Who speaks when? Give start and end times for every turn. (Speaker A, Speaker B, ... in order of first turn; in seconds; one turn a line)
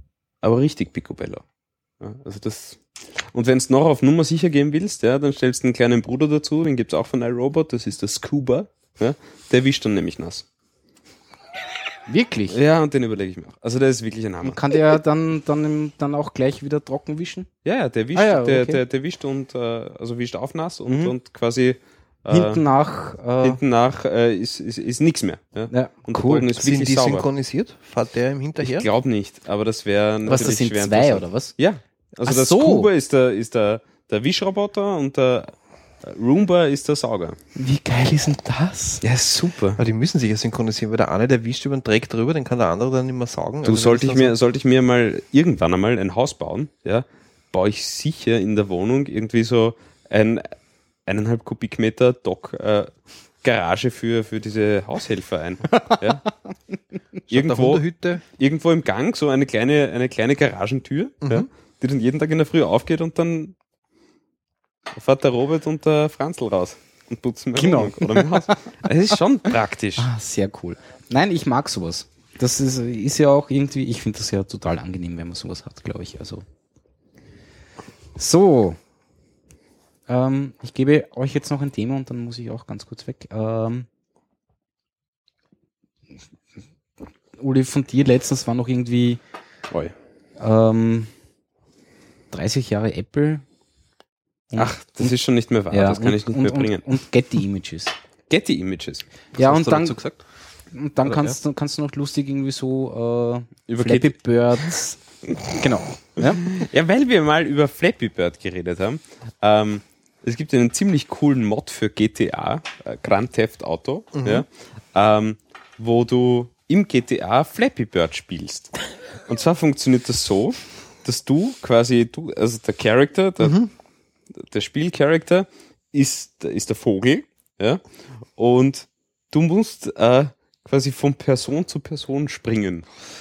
Speaker A: 0.4-1.4
Speaker A: 2.0-10.4
Speaker B: 12.1-12.6
Speaker A: 12.5-14.6
Speaker B: 14.4-17.5
Speaker A: 17.6-22.6
Speaker B: 18.1-18.8
Speaker B: 22.3-23.6
Speaker A: 23.4-27.3
Speaker B: 25.7-26.5
Speaker C: 26.6-28.9
Speaker A: 28.6-37.4
Speaker B: 30.2-31.5
Speaker B: 32.2-32.9
Speaker B: 37.5-39.0
Speaker A: 39.0-39.8
Speaker C: 39.8-44.4
Speaker A: 43.6-50.5
Speaker A: 51.0-56.2
Speaker B: 55.7-56.0
Speaker C: 57.3-58.2
Speaker A: 57.3-63.5
Speaker C: 61.2-61.5
Speaker A: 64.9-70.1
Speaker B: 67.5-68.6
Speaker B: 69.5-76.4
Speaker B: 78.2-78.8
Speaker B: 80.1-83.9
Speaker B: 87.4-89.2
Speaker B: 90.4-91.1
Speaker B: 92.3-93.4
Speaker B: 94.5-95.1
Speaker A: 94.5-96.9
Speaker B: 95.7-97.9
Speaker A: 98.3-99.0
Speaker C: 99.3-100.2
Speaker B: 99.4-100.0
Speaker B: 100.7-105.0
Speaker C: 101.0-101.3
Speaker A: 103.7-104.2
Speaker B: 105.5-106.5
Speaker A: 106.2-118.7
Speaker C: 114.1-114.4
Speaker A: 119.3-123.6
Speaker C: 123.4-123.7
Speaker A: 124.4-127.8
Speaker A: 128.3-132.8